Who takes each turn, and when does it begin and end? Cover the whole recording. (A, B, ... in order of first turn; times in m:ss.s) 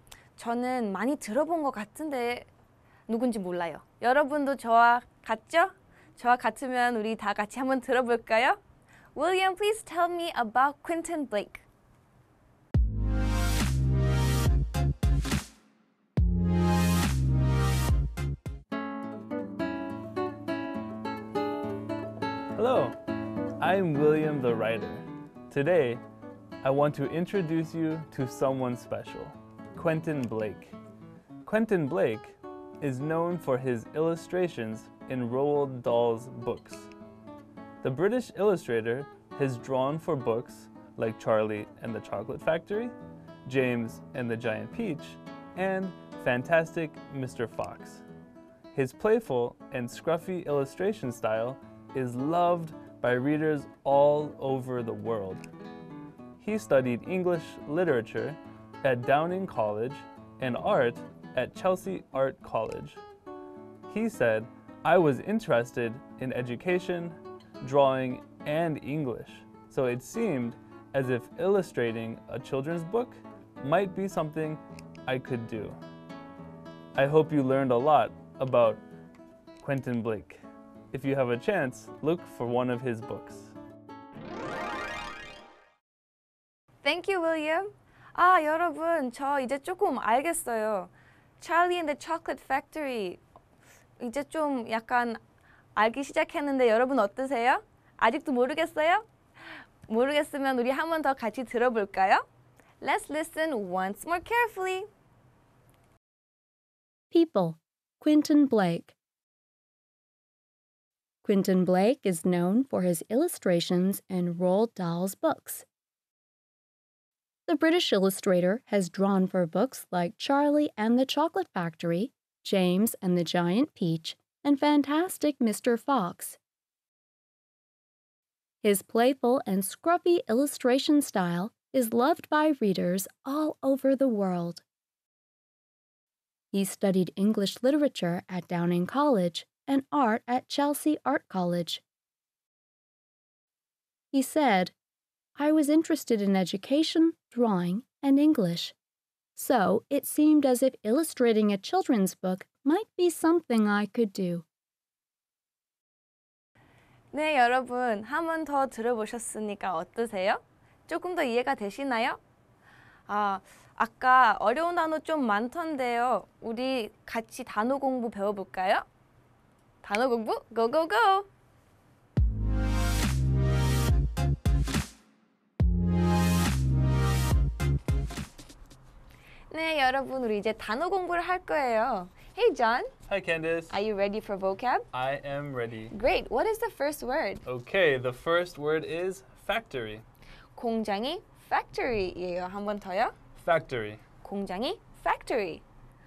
0:00.4-0:02.5 A
0:03.1-0:08.6 A
0:09.1-0:11.6 A
0:22.5-0:23.0 B
0:23.6-0:26.0 B
0:26.6-0:30.8 B
0:31.4-0:36.9 B
0:37.8-0:42.9 B
0:43.4-0:48.0 B
0:48.7-0:55.4 B
0:56.4-1:03.0 B
1:03.9-1:15.8 B
1:16.9-1:18.8 B
1:19.6-1:20.4 B
1:20.9-1:23.5 B
1:26.8-1:33.2 A
1:34.0-1:35.2 A
1:35.8-1:39.0 A
1:39.9-1:42.2 A
1:42.8-1:44.9 A
1:47.1-1:48.9 C
1:51.2-1:55.6 C
1:57.5-2:06.4 C
2:08.6-2:14.6 C
2:16.5-2:21.8 C
2:24.1-2:24.7 C
2:25.4-2:28.7 C
2:29.4-2:34.4 C
2:37.1-2:42.2 A
2:43.1-2:48.8 A
2:49.8-2:51.3 A
2:59.5-3:02.9 A
3:03.1-3:03.7 B
3:03.7-3:04.9 A
3:04.9-3:05.9 B
3:05.9-3:07.4 A
3:07.4-3:10.0 B
3:10.6-3:13.1 A
3:13.4-3:14.0 B
3:14.2-3:15.6 A